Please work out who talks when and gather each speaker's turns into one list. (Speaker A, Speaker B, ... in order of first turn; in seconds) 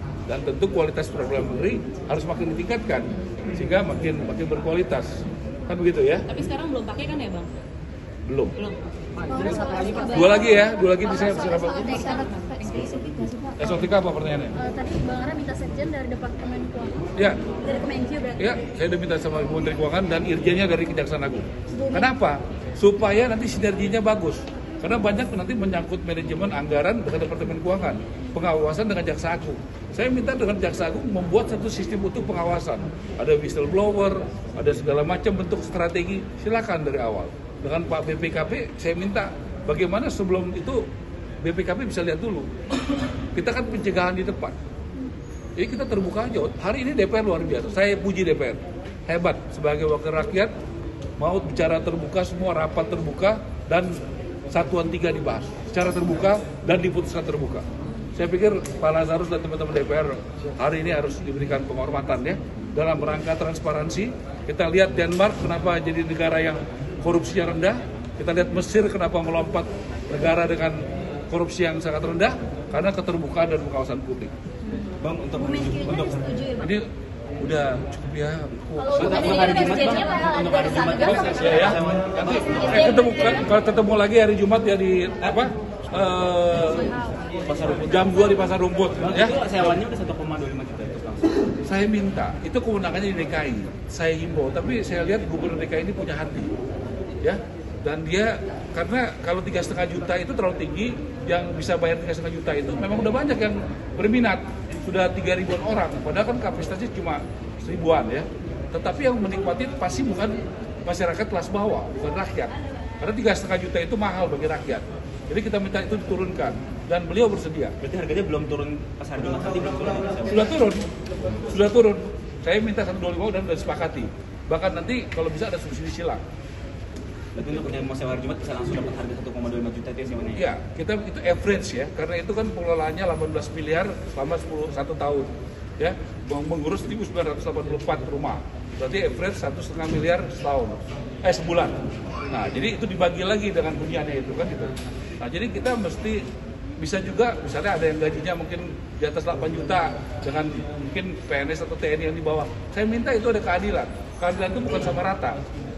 Speaker A: 0.3-6.3, 8.2-8.5, 10.0-12.1, 13.6-14.6, 18.4-40.9, 41.4-42.5, 43.3-44.5, 45.6-50.5, 51.2-57.6, 58.1-74.3, 76.6-76.8, 77.4-79.6, 81.2-81.8, 82.4-86.9, 87.8-89.8, 91.6-96.5, 97.2-117.7, 120.3-120.8, 121.4-126.2, 130.3-141.8, 142.3-146.2, 146.8-155.4
Speaker B: 6.3-7.5, 8.6-10.2, 11.9-13.2
Speaker C: 9.3-10.6, 11.2-13.6, 14.6-17.1, 17.6-18.5, 21.8-22.1, 75.5-76.7, 78.8-81.4
Speaker D: 75.0-76.4, 78.9-83.0, 87.4-88.3, 89.0-91.5, 117.8-120.5, 127.3-130.4